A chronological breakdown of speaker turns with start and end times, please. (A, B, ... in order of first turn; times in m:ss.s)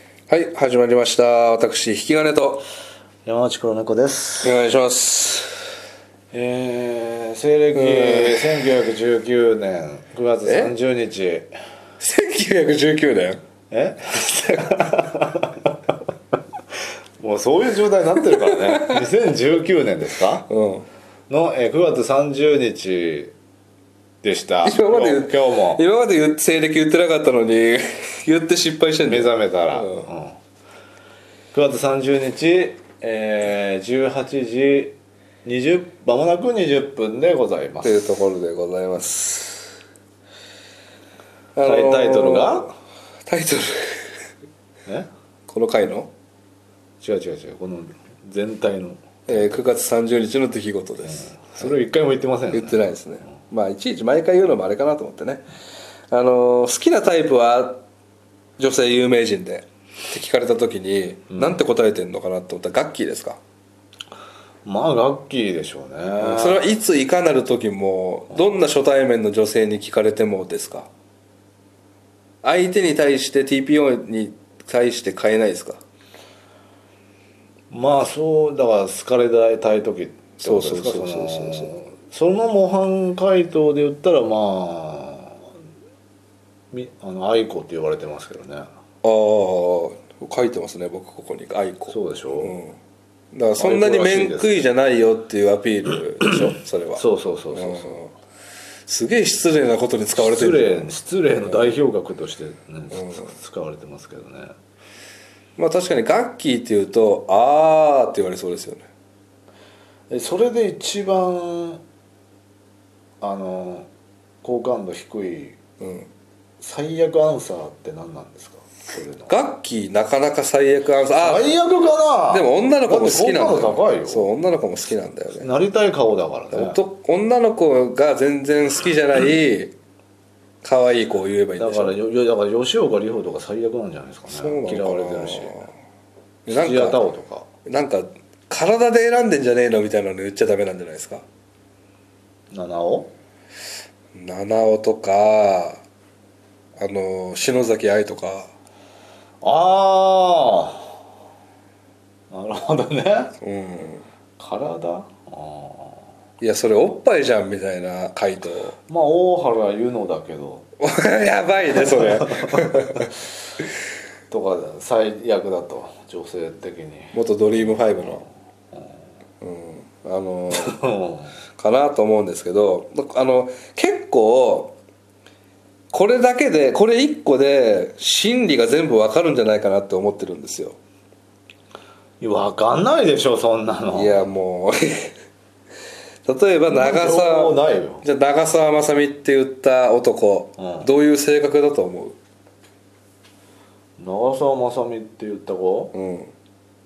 0:00.3-0:02.6 A
0:03.2-0:04.6 B
0:04.4-0:05.5 A
0:06.3-0:11.5 B
0:07.7-0:08.7 A
0:10.5-0:10.7 A
0:12.0-0:13.4 A
0:13.7-0:15.7 B
0:17.2-0:20.5 B
0:18.6-0:19.0 A
0:20.5-0:20.9 A
0:21.3-0:23.3 B
0:24.2-0:25.8 B
0:24.6-0:30.1 A
0:29.0-0:30.4 B
0:31.5-0:38.1 B
0:37.8-0:39.8 A
0:41.6-0:42.7 A
0:41.6-0:42.7 B
0:43.3-0:44.1 A
0:45.5-0:46.1 A
0:47.0-0:49.6 B
0:49.3-0:51.7 A
0:51.0-0:52.9 B
0:52.5-0:55.4 A
0:56.1-0:57.8 A
0:58.6-1:03.4 A
1:01.3-1:01.6 B
1:04.6-1:06.7 B
1:06.2-1:10.9 A
1:08.3-1:08.6 B
1:12.4-1:15.8 A
1:17.7-1:25.5 B
1:20.4-1:21.7 A
1:26.7-1:28.7 B
1:29.0-1:32.8 A
1:31.9-1:32.5 B
1:33.3-1:38.1 A
1:33.6-1:34.6 B
1:37.0-1:38.0 B
1:38.9-1:40.9 A
1:40.2-1:44.5 B
1:41.4-1:41.8 A
1:42.9-1:43.3 A
1:45.6-1:48.9 A
1:50.1-1:51.8 B
1:53.2-1:53.9 B
1:54.4-1:55.6 B
1:55.8-1:56.1 A
1:56.6-1:59.4 B
1:59.3-2:01.5 A
2:01.2-2:04.3 B
2:02.3-2:05.5 A
2:05.4-2:06.8 B
2:06.5-2:09.7 A
2:10.6-2:12.0 A
2:11.6-2:15.6 B
2:14.3-2:15.7 A
2:16.5-2:17.1 A
2:16.5-2:17.5 B
2:17.7-2:21.2 A
2:22.5-2:23.1 B
2:24.1-2:25.8 A
2:26.8-2:28.5 A
2:29.4-2:30.9 B
2:32.3-2:33.3 B
2:33.4-2:34.0 A
2:34.4-2:36.1 B
2:36.4-2:38.8 A
2:38.9-2:40.7 B
2:40.8-2:43.1 A
2:41.7-2:43.1 B
2:44.3-2:48.9 B
2:47.1-2:48.2 A
2:49.4-2:50.8 A
2:50.6-2:51.3 B
2:51.6-2:54.8 A
2:55.9-3:00.8 A
3:02.2-3:04.3 B
3:03.9-3:05.1 A
3:06.3-3:12.2 A
3:06.7-3:08.0 B
3:10.6-3:10.9 B
3:14.0-3:15.9 B
3:15.9-3:16.3 A